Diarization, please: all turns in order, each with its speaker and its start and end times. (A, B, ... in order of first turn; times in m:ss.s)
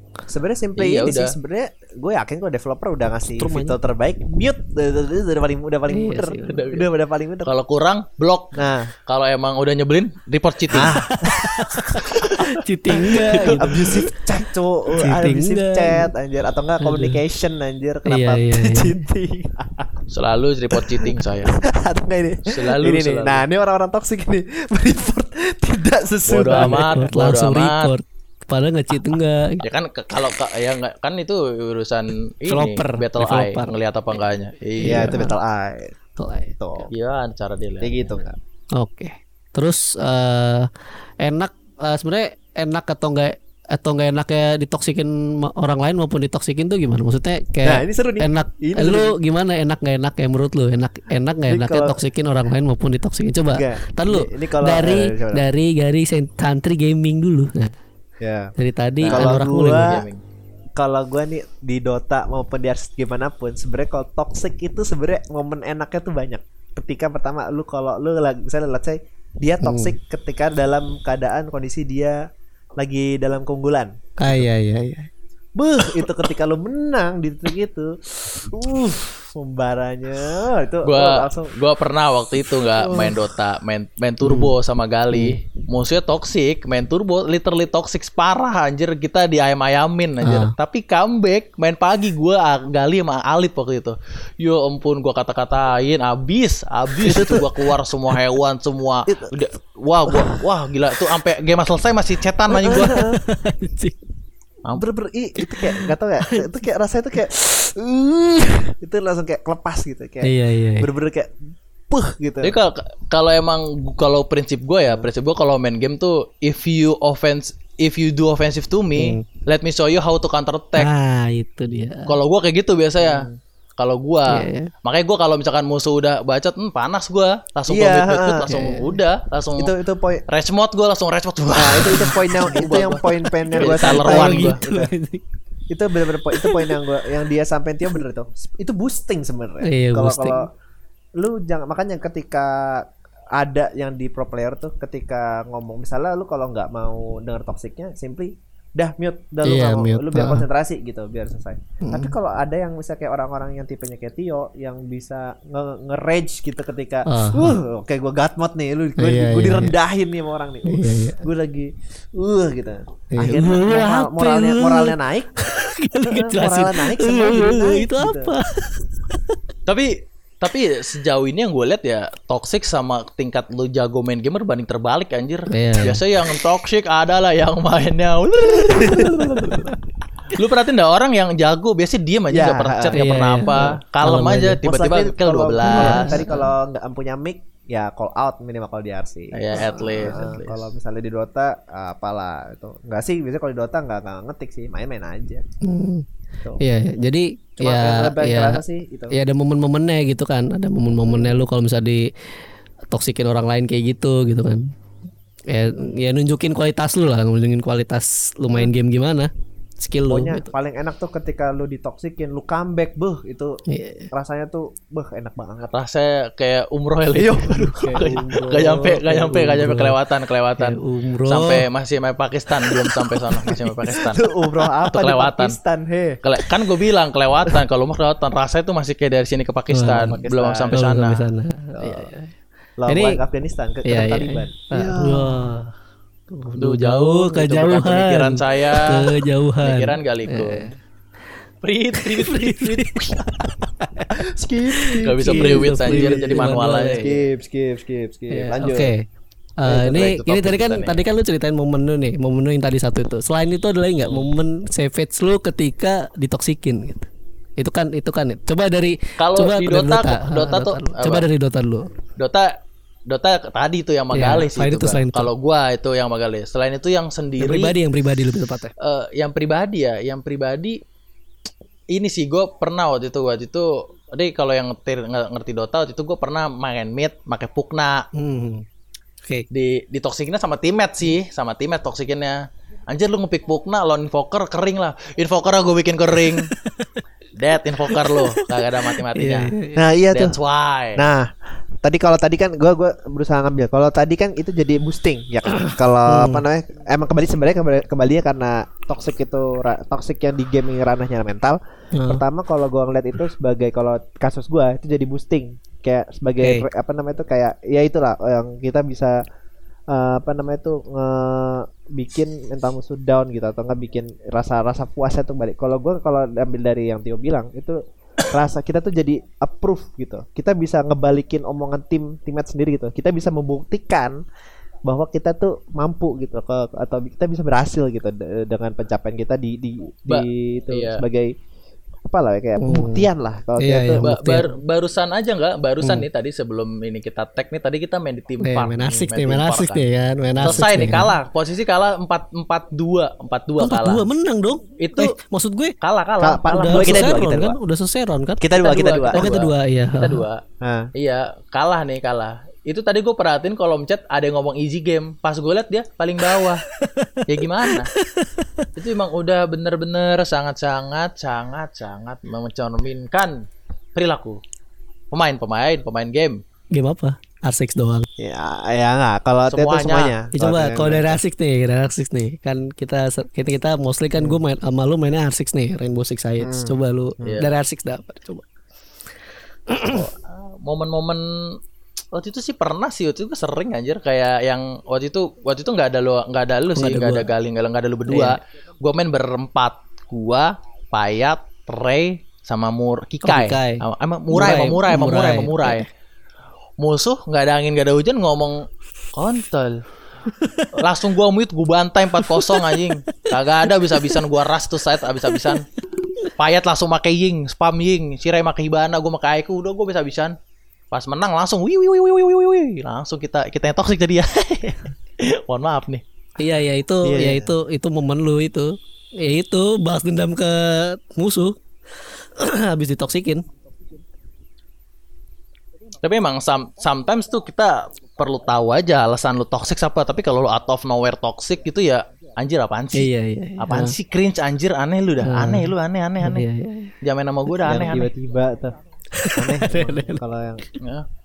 0:00.3-0:07.5 A
0:00.8-0:01.3 B
0:03.4-0:03.8 C
0:05.9-0:06.7 C
0:06.4-0:06.9 B
0:07.4-0:11.0 B
0:08.6-0:08.9 A
0:10.7-0:11.9 A
0:11.0-0:14.4 C
0:12.0-0:14.0 B
0:13.0-0:20.0 A
0:15.0-0:16.1 C
0:16.8-0:17.2 C
0:18.1-0:19.0 C
0:20.1-0:21.6 B
0:20.9-0:27.0 A
0:22.5-0:23.4 B
0:26.3-0:27.9 B
0:26.5-0:29.6 C
0:29.6-0:35.2 B
0:32.5-0:33.7 C
0:34.8-0:35.4 C
0:34.8-0:35.9 A
0:36.2-0:36.6 C
0:36.6-0:36.9 A
0:36.9-0:38.2 B
0:37.8-0:38.4 A
0:38.8-0:40.7 C
0:41.2-0:57.7 C
0:47.6-0:49.2 A
0:51.5-0:52.0 A
0:53.5-0:55.4 A
0:58.2-0:58.5 A
0:58.6-1:00.0 C
0:59.0-1:00.2 B
0:59.1-1:00.0 A
1:00.8-1:12.2 A
1:09.6-1:10.0 C
1:12.8-1:14.4 A
1:14.2-1:15.1 C
1:15.6-1:21.5 A
1:20.8-1:43.0 B
1:22.8-1:23.2 A
1:24.2-1:24.6 C
1:30.2-1:30.5 C
1:37.0-1:37.5 A
1:39.1-1:39.4 A
1:42.6-1:43.2 A
1:42.7-1:44.0 C
1:44.8-1:51.4 A
1:45.4-1:46.5 C
1:50.2-1:50.9 C
1:51.9-1:52.5 A
1:52.4-2:00.9 B
1:59.0-1:59.2 C
2:00.8-2:02.2 C
2:02.1-2:09.7 B
2:03.0-2:03.4 A
2:04.3-2:04.7 C
2:07.7-2:08.6 A
2:08.5-2:09.0 C
2:09.6-2:10.2 A
2:10.3-2:14.6 B
2:11.6-2:14.9 A
2:13.4-2:15.2 C
2:15.7-2:20.5 A
2:16.3-2:16.8 C
2:19.6-2:20.4 C
2:21.2-2:45.5 A
2:29.4-2:30.5 C
2:31.8-2:32.2 C
2:37.1-2:37.6 C
2:39.0-2:39.8 C
2:40.6-2:41.2 C
2:43.1-2:49.4 C
2:46.1-2:48.3 A
2:49.7-2:59.7 B
2:55.5-2:56.0 C
2:58.8-2:59.7 A
2:59.0-2:59.7 C
3:00.3-3:06.2 B
3:02.3-3:03.0 A
3:02.9-3:04.6 C
3:04.6-3:15.4 A
3:05.6-3:06.5 C
3:09.3-3:10.7 B
3:09.6-3:10.3 C
3:15.6-3:16.1 C
3:16.6-3:22.1 C
3:17.6-3:19.2 A
3:21.1-3:21.4 A
3:22.9-3:24.7 C
3:25.5-3:30.5 C
3:30.1-3:33.6 A
3:33.7-3:34.1 C
3:34.1-3:35.7 A
3:35.7-3:45.6 B
3:37.2-3:38.4 A
3:37.4-3:40.0 C
3:40.6-3:41.7 C
3:44.0-3:46.2 A
3:46.2-3:51.3 B
3:49.7-3:50.2 C
3:50.0-3:50.8 A
3:50.7-3:52.3 C
3:51.8-3:52.1 A
3:52.8-3:55.5 A
3:52.9-3:53.2 C
3:53.9-3:55.8 C
3:56.3-4:00.7 C
3:56.6-3:59.1 B
3:59.6-4:00.7 B
4:01.6-4:03.1 B
4:02.0-4:03.2 C
4:03.8-4:04.1 C
4:04.2-4:08.9 A
4:04.7-4:07.2 C
4:05.0-4:07.1 B
4:08.3-4:09.0 C
4:09.6-4:21.9 C
4:09.7-4:11.0 B
4:19.2-4:21.3 B
4:22.2-4:22.6 B
4:23.1-4:27.8 B
4:24.1-4:25.3 C
4:27.4-4:28.7 C
4:28.8-4:30.8 B
4:31.9-4:38.1 B
4:38.2-4:38.6 C
4:39.5-4:46.5 B
4:46.2-4:47.0 C
4:47.4-4:49.5 B
4:47.9-4:49.9 C
4:49.8-4:50.4 A
4:50.1-4:51.1 B
4:51.0-4:51.3 A
4:51.8-5:09.2 A
4:56.1-4:56.5 C
5:01.9-5:02.2 C
5:06.4-5:06.7 C
5:09.9-5:24.2 A
5:24.8-5:31.3 A
5:30.1-5:31.0 B
5:32.1-5:34.1 A
5:32.6-5:34.6 C
5:34.0-5:39.8 B
5:38.4-5:41.1 C
5:40.4-5:44.0 B
5:43.6-5:45.8 C
5:44.8-5:45.2 B
5:45.8-5:47.1 B
5:46.2-5:47.6 A
5:46.5-5:48.5 C
5:48.4-5:49.3 A
5:48.6-5:50.4 B
5:49.1-5:50.3 C
5:50.6-5:50.9 A
5:51.0-5:56.6 B
5:56.4-5:58.7 C
5:57.3-5:57.9 B
5:58.8-6:03.4 B
6:04.0-6:04.4 B
6:05.1-6:06.4 B
6:06.7-6:08.1 C
6:08.2-6:11.2 A
6:09.5-6:10.2 B
6:10.3-6:18.5 C
6:16.4-6:17.4 A
6:17.2-6:17.5 B
6:19.7-6:20.1 C
6:19.9-6:21.6 B
6:22.1-6:35.9 B
6:26.8-6:27.3 C
6:28.1-6:28.4 C
6:33.2-6:35.9 C
6:36.8-6:39.9 B
6:40.3-6:40.7 C
6:40.7-6:45.6 B
6:42.2-6:44.2 C
6:45.3-6:45.6 C
6:46.4-6:50.4 B
6:50.9-6:56.0 B
6:56.4-7:01.6 C
6:57.0-6:57.5 A
7:02.4-7:03.4 C
7:06.0-7:16.4 B
7:13.0-7:14.0 C
7:15.2-7:16.9 C
7:17.0-7:18.1 B
7:17.6-7:18.8 A
7:19.1-7:20.2 C
7:19.3-7:20.6 A
7:20.8-7:21.1 B